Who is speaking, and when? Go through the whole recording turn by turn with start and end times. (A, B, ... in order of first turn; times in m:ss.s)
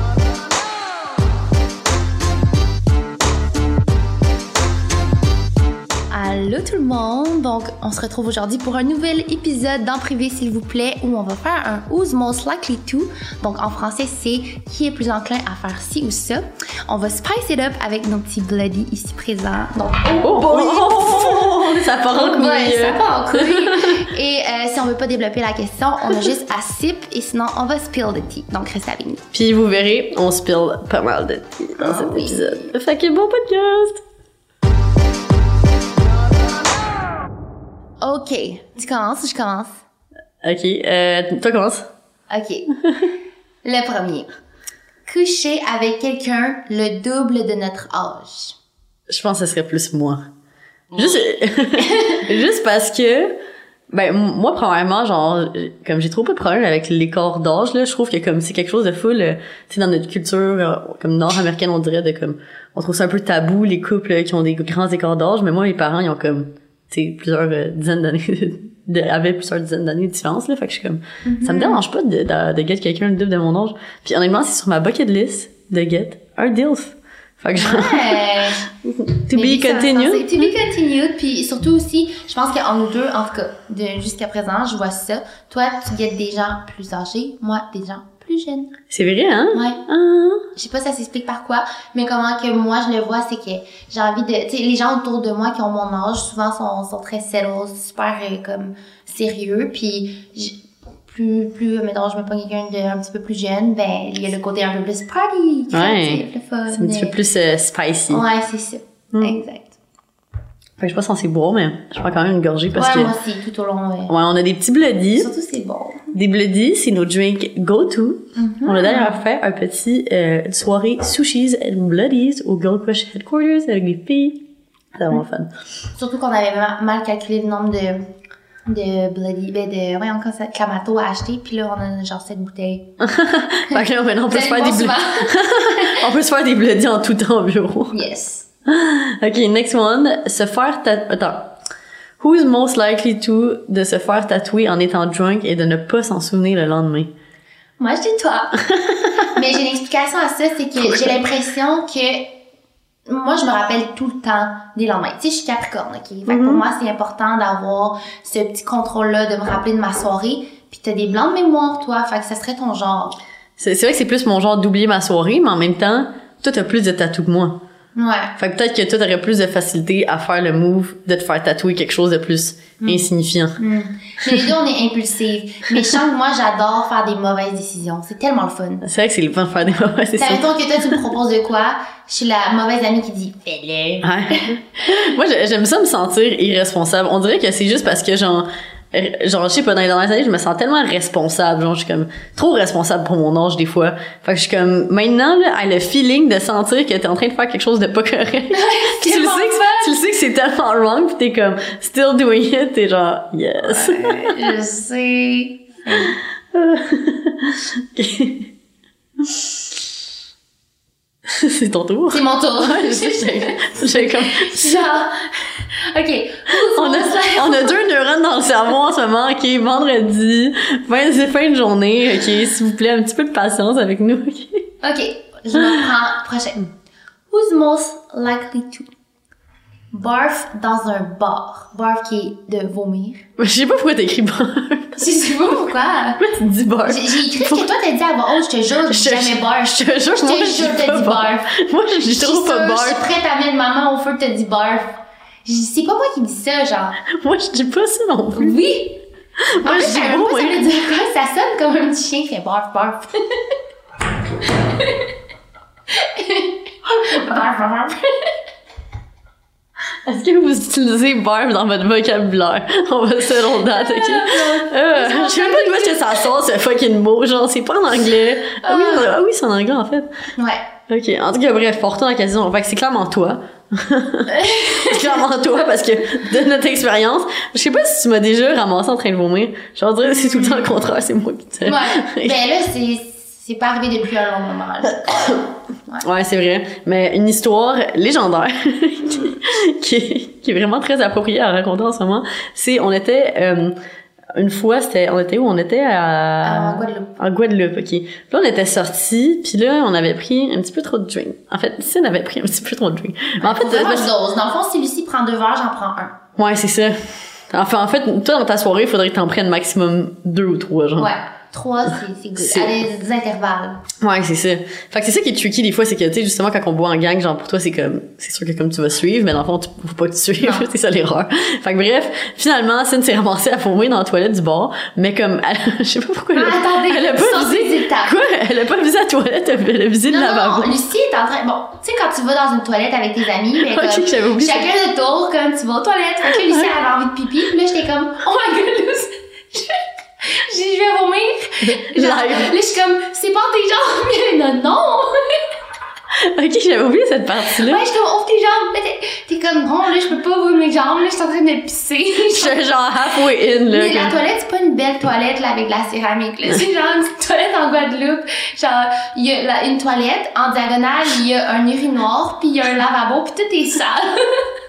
0:06.1-0:21.6 A
0:20.2-0:24.0 B
0:22.1-0:29.2 A
0:29.3-0:34.0 B
0:31.8-0:32.6 A
0:38.0-0:39.8 A
0:40.4-0:41.9 B
0:42.3-0:42.7 A
0:43.6-0:44.3 A
0:45.0-0:48.6 A
0:49.1-0:50.3 B
0:50.9-0:53.3 B
0:51.8-0:52.2 A
0:53.9-1:20.5 B
1:11.2-1:11.8 A
1:17.6-1:18.7 A
1:19.3-1:28.7 A
1:28.9-1:30.4 B
1:29.5-1:29.8 A
1:30.5-1:47.2 A
1:45.7-1:48.2 B
1:48.1-1:49.8 A
1:49.1-1:49.4 B
1:50.8-1:53.1 B
1:52.7-1:54.1 A
1:54.1-1:55.3 B
1:55.1-1:56.1 A
1:56.1-2:05.5 B
1:58.4-1:59.2 A
2:05.9-2:08.1 A
2:08.6-2:12.9 A
2:13.0-2:17.9 B
2:13.7-2:16.0 A
2:17.9-2:18.5 A
2:18.6-2:21.6 B
2:22.2-2:27.1 B
2:27.8-2:28.6 A
2:28.7-2:29.3 B
2:29.3-2:32.4 A
2:30.8-2:31.2 B
2:33.1-2:43.2 A
2:36.2-2:36.6 B
2:43.6-2:47.6 B
2:48.0-2:48.3 A
2:48.4-2:53.6 B
2:52.8-2:53.1 A
2:53.6-2:58.8 A
2:58.8-3:01.0 B
3:00.2-3:04.5 A
3:04.0-3:24.5 B
3:18.5-3:19.9 A
3:23.6-3:26.2 A
3:26.5-3:28.5 B
3:29.2-3:29.6 B
3:31.3-3:34.8 B
3:32.1-3:37.8 A
3:36.6-3:44.7 B
3:44.8-3:46.7 A
3:45.5-3:45.8 B
3:47.3-3:48.9 A
3:49.9-3:53.2 A
3:53.4-3:55.0 B
3:55.0-3:56.2 A
3:56.2-3:57.7 B
3:56.9-4:01.5 A
3:58.9-4:03.0 B
4:02.1-4:07.0 A
4:07.1-4:08.6 B
4:08.3-4:09.0 A
4:09.4-4:10.6 B
4:09.6-4:13.1 A
4:14.4-4:15.0 A
4:15.9-4:18.3 A
4:20.0-4:30.1 B
4:23.6-4:26.2 A
4:28.6-4:29.1 A
4:30.3-4:30.6 A
4:30.9-4:42.3 B
4:34.3-4:35.1 A
4:40.2-4:40.7 A
4:41.6-4:46.0 A
4:45.1-4:45.4 B
4:46.0-4:53.7 B
4:54.3-5:04.1 B
4:56.4-4:57.2 A
5:03.4-5:06.2 A
5:06.4-5:11.1 B
5:11.0-5:13.8 A
5:12.4-5:12.8 B
5:14.0-5:30.7 B
5:20.4-5:20.7 A
5:26.3-5:28.2 A
5:30.1-5:45.2 A
5:33.6-5:34.7 B
5:36.3-5:36.7 B
5:41.6-5:42.5 B
5:46.2-5:47.8 B
5:47.6-5:52.6 A
5:52.3-5:54.2 B
5:53.7-6:04.4 A